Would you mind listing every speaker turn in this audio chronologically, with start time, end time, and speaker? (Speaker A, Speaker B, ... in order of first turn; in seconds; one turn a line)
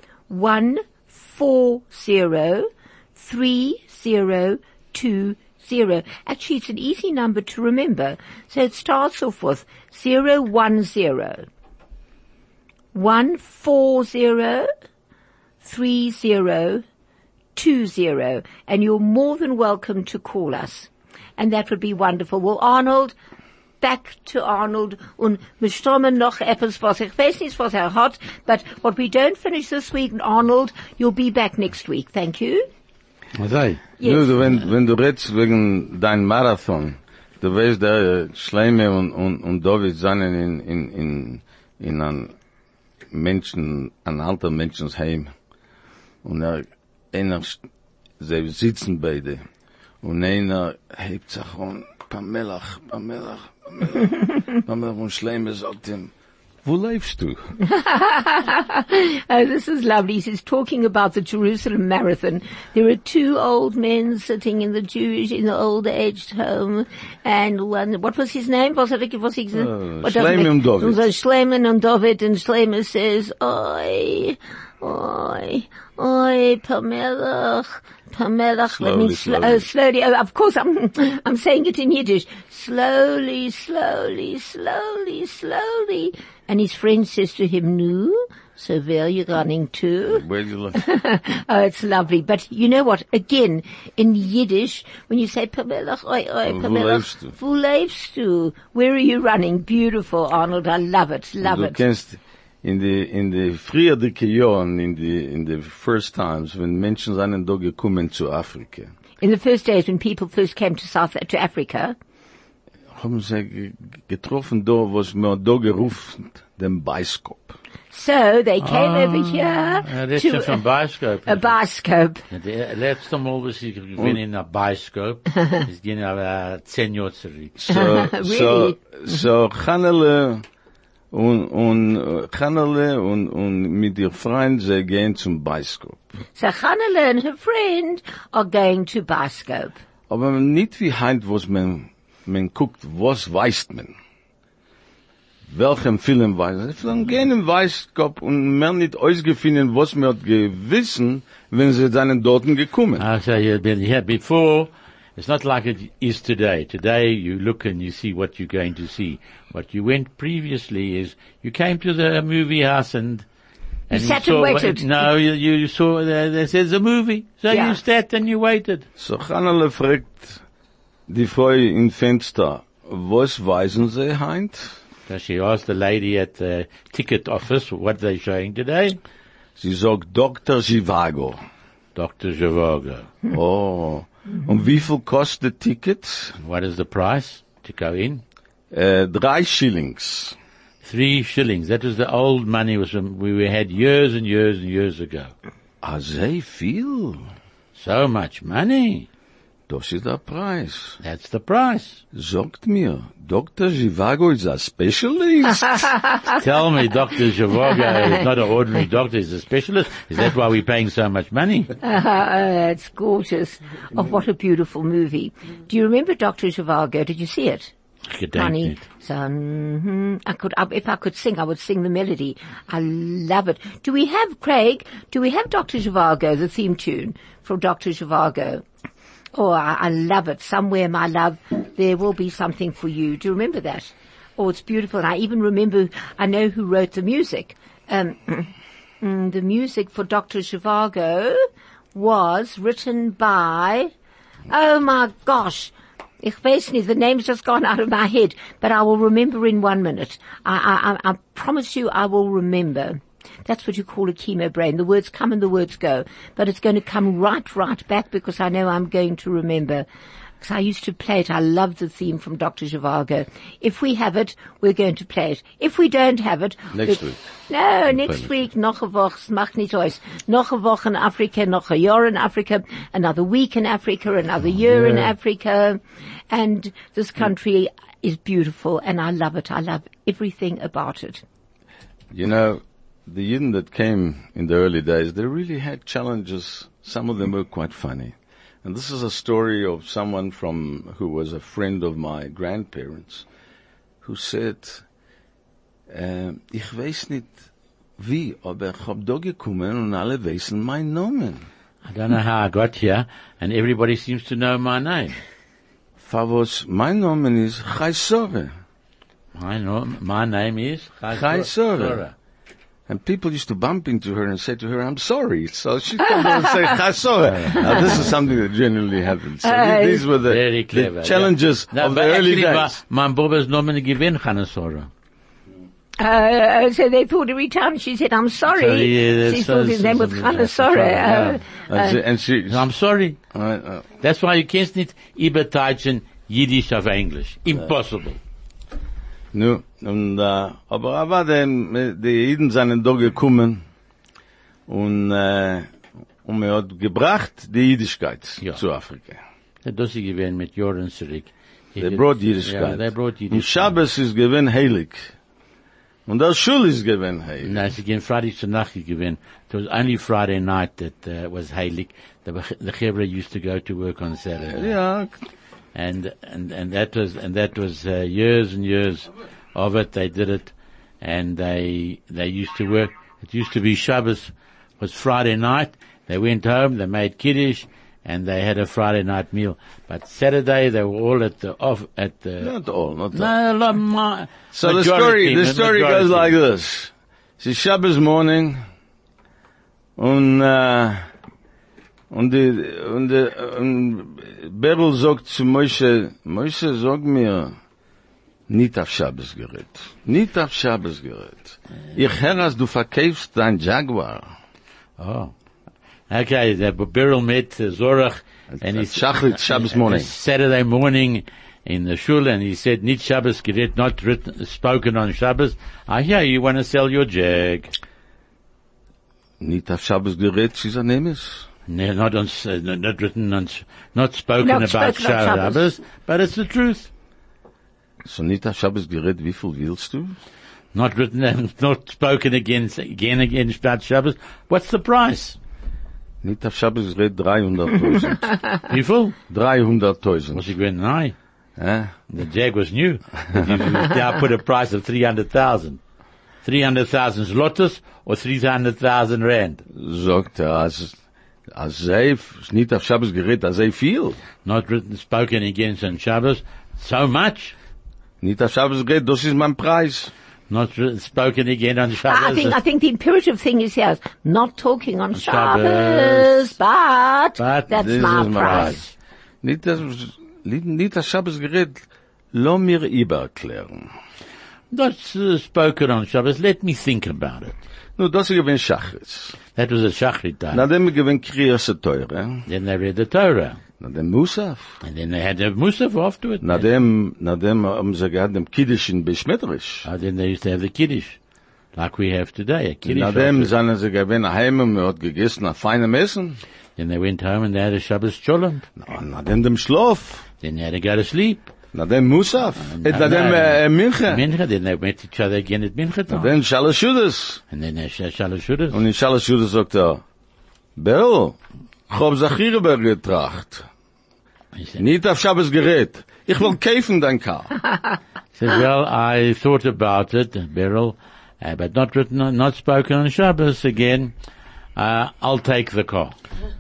Speaker A: 0.3-11.5
Speaker A: 12.9-14.7
Speaker A: 15.6-16.8
Speaker A: 17.6-23.1
Speaker A: 23.8-32.7
Speaker B: 33.4-33.8
Speaker A: 34.0-34.3
Speaker C: 34.0-42.3
Speaker C: 43.1-45.3
Speaker C: 46.2-47.6
Speaker C: 48.2-49.4
Speaker C: 50.0-56.1
Speaker C: 56.6-57.4
Speaker A: 57.6-101.8
Speaker C: 69.5-71.0
Speaker C: 78.7-79.7
Speaker C: 90.1-90.8
Speaker C: 96.5-97.3
Speaker C: 101.4-108.9
Speaker A: 109.2-112.0
Speaker C: 112.9-117.6
Speaker A: 117.9-120.6
Speaker B: 118.6-121.6
Speaker A: 121.3-122.2
Speaker B: 122.3-127.6
Speaker C: 127.6-130.4
Speaker A: 127.7-128.8
Speaker C: 131.1-136.1
Speaker A: 136.4-139.8
Speaker C: 140.1-143.9
Speaker C: 145.5-153.1
Speaker B: 153.0-163.2
Speaker B: 163.9-168.9
Speaker A: 163.9-164.9
Speaker A: 167.5-167.8
Speaker C: 169.0-170.4
Speaker C: 171.1-174.8
Speaker B: 175.1-179.0
Speaker C: 179.6-181.4
Speaker B: 181.9-183.1
Speaker C: 183.3-186.4
Speaker B: 186.4-188.2
Speaker C: 188.7-190.4
Speaker B: 190.8-195.3
Speaker C: 195.8-197.2
Speaker B: 197.8-199.1
Speaker C: 199.7-201.0
Speaker B: 201.0-202.0
Speaker C: 202.1-206.0
Speaker B: 206.3-211.7
Speaker A: 211.8-217.7
Speaker B: 218.1-218.8
Speaker A: 218.3-228.6
Speaker A: 229.3-243.9
Speaker A: 244.5-259.9
Speaker A: 260.4-281.2
Speaker C: 266.7-267.2
Speaker C: 267.9-268.3
Speaker C: 282.1-293.3
Speaker C: 294.0-294.8
Speaker C: 295.9-297.4
Speaker C: 298.0-301.5
Speaker B: 301.9-305.2
Speaker C: 306.0-308.5
Speaker B: 309.4-312.1
Speaker C: 311.1-312.0
Speaker C: 312.9-322.8
Speaker B: 317.3-318.1
Speaker A: 319.4-320.1
Speaker B: 320.2-324.9
Speaker A: 326.0-332.0
Speaker B: 328.5-331.4
Speaker C: 331.7-332.7
Speaker B: 332.5-333.2
Speaker C: 333.3-333.9
Speaker B: 334.0-338.2
Speaker C: 339.3-343.6
Speaker C: 344.7-345.7
Speaker C: 346.2-349.2
Speaker B: 349.6-353.8
Speaker C: 351.8-355.1
Speaker C: 356.1-357.6
Speaker B: 357.4-364.7
Speaker C: 364.5-365.2
Speaker B: 365.8-382.5
Speaker C: 382.4-383.3
Speaker B: 383.1-386.3
Speaker C: 384.5-388.6
Speaker C: 390.0-391.1
Speaker C: 392.1-397.5
Speaker C: 398.5-404.3
Speaker B: 405.0-405.3
Speaker B: 406.1-417.7
Speaker C: 408.5-410.1
Speaker C: 419.4-421.5
Speaker B: 421.7-426.9
Speaker A: 424.4-425.6
Speaker C: 428.1-430.2
Speaker B: 430.7-435.4
Speaker C: 436.2-438.4
Speaker B: 438.7-439.2
Speaker C: 439.3-440.4
Speaker B: 440.3-441.1
Speaker C: 441.6-441.9
Speaker B: 442.1-445.8
Speaker B: 446.4-449.6
Speaker C: 449.7-450.9
Speaker C: 451.5-454.2
Speaker B: 454.4-457.5
Speaker C: 458.2-460.1
Speaker B: 460.5-462.6
Speaker A: 462.1-468.9
Speaker B: 465.1-466.5
Speaker B: 467.4-468.8
Speaker C: 467.7-468.8
Speaker C: 469.4-473.9
Speaker B: 474.7-477.6
Speaker C: 478.0-479.4
Speaker B: 479.6-480.6
Speaker C: 480.5-482.4
Speaker B: 482.5-483.6
Speaker C: 483.8-484.8
Speaker B: 484.8-486.7
Speaker C: 486.4-489.9
Speaker B: 489.9-491.2
Speaker B: 491.7-493.5
Speaker C: 492.9-496.4
Speaker B: 496.8-498.7
Speaker C: 498.8-500.2
Speaker B: 500.4-501.5
Speaker C: 501.7-504.2
Speaker B: 502.6-506.3
Speaker C: 506.1-507.4
Speaker B: 507.5-508.8
Speaker C: 508.7-510.0
Speaker C: 510.8-511.4
Speaker C: 511.9-513.7
Speaker B: 514.6-514.8
Speaker C: 514.8-517.6
Speaker B: 518.4-524.1
Speaker B: 524.8-526.1